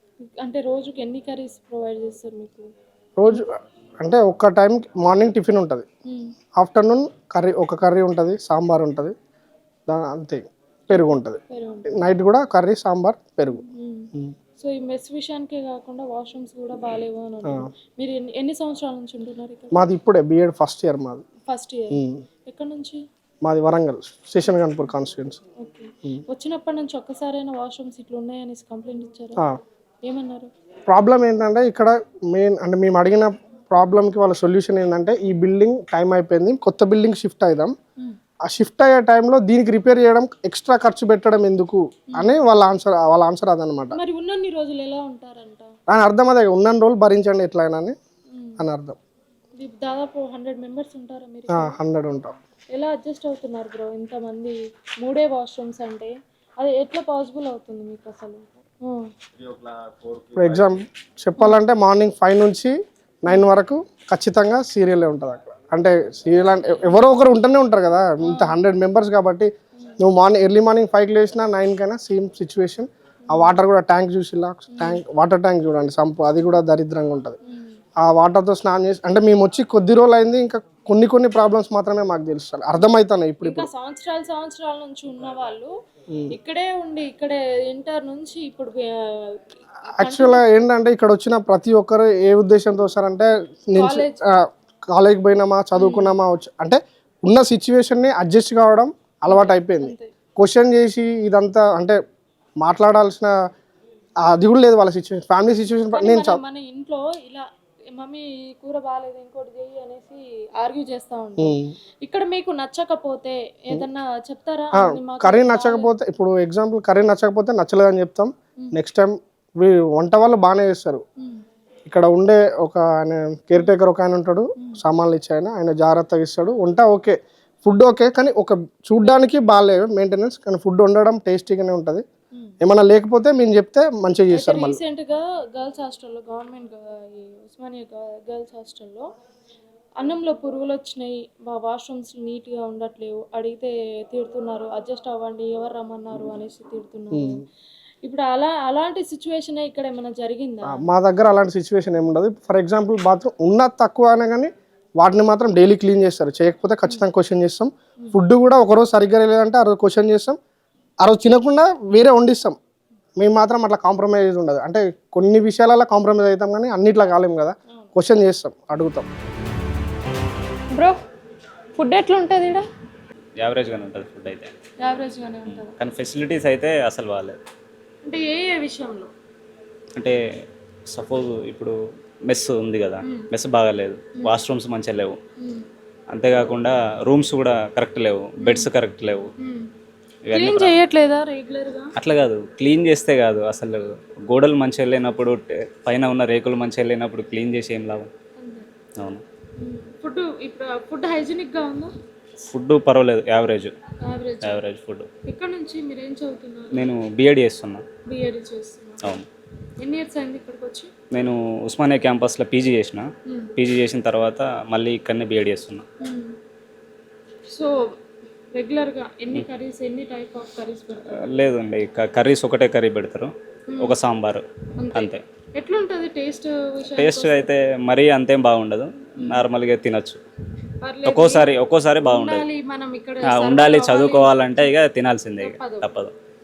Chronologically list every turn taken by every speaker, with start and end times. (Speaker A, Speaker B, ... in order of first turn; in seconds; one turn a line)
Speaker A: 0.4-2.6
Speaker B: 3.2-3.4
Speaker B: 4.0-5.9
Speaker B: 6.6-9.2
Speaker B: 9.9-13.6
Speaker A: 10.9-11.9
Speaker A: 13.6-19.8
Speaker B: 19.7-21.2
Speaker A: 21.5-23.0
Speaker B: 21.9-22.2
Speaker B: 23.4-25.4
Speaker A: 25.6-29.4
Speaker A: 30.1-30.5
Speaker B: 30.9-37.8
Speaker B: 38.5-44.0
Speaker A: 43.9-45.7
Speaker B: 45.9-48.0
Speaker B: 48.6-49.0
Speaker A: 49.6-51.8
Speaker B: 51.5-52.3
Speaker A: 52.7-59.0
Speaker B: 60.4-77.4
Speaker A: 68.3-68.6
Speaker A: 74.7-75.0
Speaker B: 78.0-83.7
Speaker A: 83.4-85.7
Speaker A: 86.3-89.2
Speaker A: 90.0-90.4
Speaker B: 90.0-94.1
Speaker A: 93.8-94.2
Speaker B: 94.9-102.0
Speaker A: 95.8-96.2
Speaker A: 99.3-100.1
Speaker B: 102.6-103.3
Speaker B: 104.3-106.4
Speaker A: 105.9-115.9
Speaker B: 111.4-111.7
Speaker B: 114.8-121.0
Speaker B: 121.9-132.1
Speaker B: 132.6-134.8
Speaker A: 134.3-139.1
Speaker A: 140.0-147.4
Speaker B: 147.1-147.4
Speaker A: 148.0-150.8
Speaker B: 150.7-160.4
Speaker B: 161.0-162.6
Speaker B: 163.2-169.1
Speaker A: 171.8-172.6
Speaker C: 173.4-174.5
Speaker A: 174.8-175.7
Speaker C: 175.5-177.4
Speaker A: 178.1-179.1
Speaker C: 180.9-181.7
Speaker C: 182.3-185.2
Speaker C: 186.1-189.3
Speaker A: 188.4-188.7
Speaker A: 189.4-189.7
Speaker C: 190.3-190.8
Speaker A: 190.3-191.9
Speaker C: 192.0-198.1
Speaker A: 198.4-198.7
Speaker A: 199.6-201.9
Speaker C: 202.5-203.7
Speaker A: 204.1-204.6
Speaker C: 204.4-205.1
Speaker A: 205.3-206.9
Speaker C: 206.7-207.8
Speaker A: 208.1-209.2
Speaker A: 209.8-210.9
Speaker C: 211.1-213.1
Speaker C: 213.6-215.8
Speaker A: 216.0-216.3
Speaker A: 218.6-221.2
Speaker C: 221.3-225.2
Speaker A: 224.8-227.5
Speaker C: 227.0-230.2
Speaker A: 230.8-231.5
Speaker C: 231.1-232.4
Speaker A: 232.1-234.7
Speaker C: 233.3-236.1
Speaker A: 235.4-235.9